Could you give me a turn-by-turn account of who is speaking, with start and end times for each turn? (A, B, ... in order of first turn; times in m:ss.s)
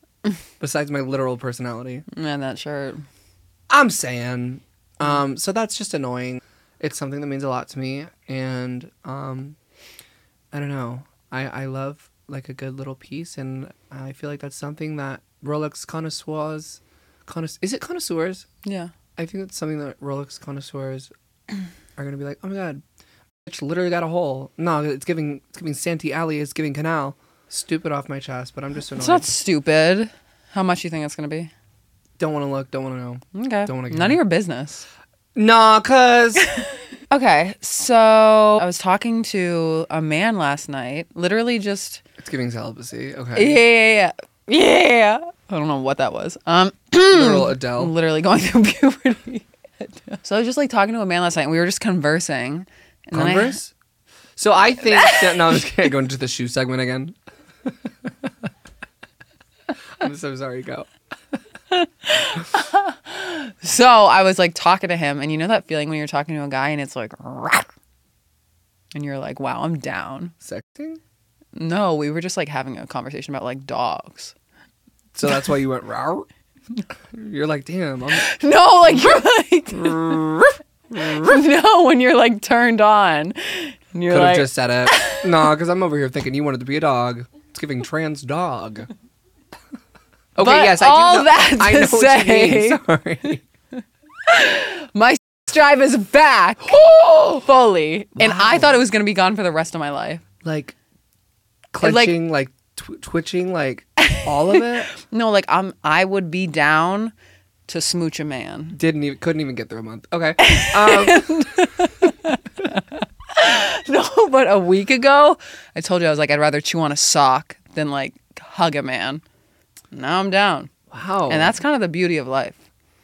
0:00.6-0:02.0 A
0:02.1-0:03.0 B
0:03.7-0:09.6 A
0:10.5-0:18.5 A
0:18.6-0:18.9 B
0:19.2-0:21.1 A
0:22.0-0:22.8 A
0:23.4-0:29.3 A
0:29.0-0:31.5 B
0:32.2-0:34.2 A
0:33.3-0:34.8 B
0:35.4-0:36.5 A
0:36.6-0:42.0 B
0:42.2-0:43.6 A
0:43.3-0:53.6 B
0:47.1-0:47.9 A
0:53.1-0:53.7 A
0:54.4-0:57.2 A
0:54.8-0:55.6 B
1:00.0-1:00.9 A
1:01.7-1:07.7 B
1:08.9-1:10.3 B
1:10.4-1:11.0 A
1:11.5-1:14.3 B
1:15.1-1:16.3 A
1:17.1-1:18.3 A
1:18.1-1:20.2 B
1:19.7-1:21.4 A
1:21.0-1:25.3 B
1:24.1-1:28.9 A
1:30.4-1:33.4 A
1:30.4-1:32.8 B
1:34.2-1:36.8 B
1:36.6-1:37.5 A
1:37.4-1:40.2 B
1:38.2-1:38.8 A
1:40.4-1:40.8 A
1:41.7-1:44.9 A
1:41.8-1:42.1 B
1:44.0-1:47.1 B
1:47.7-1:48.8 B
1:48.7-1:51.6 A
1:50.4-1:59.2 B
1:59.9-2:00.7 B
2:00.9-2:01.5 A
2:01.3-2:02.6 B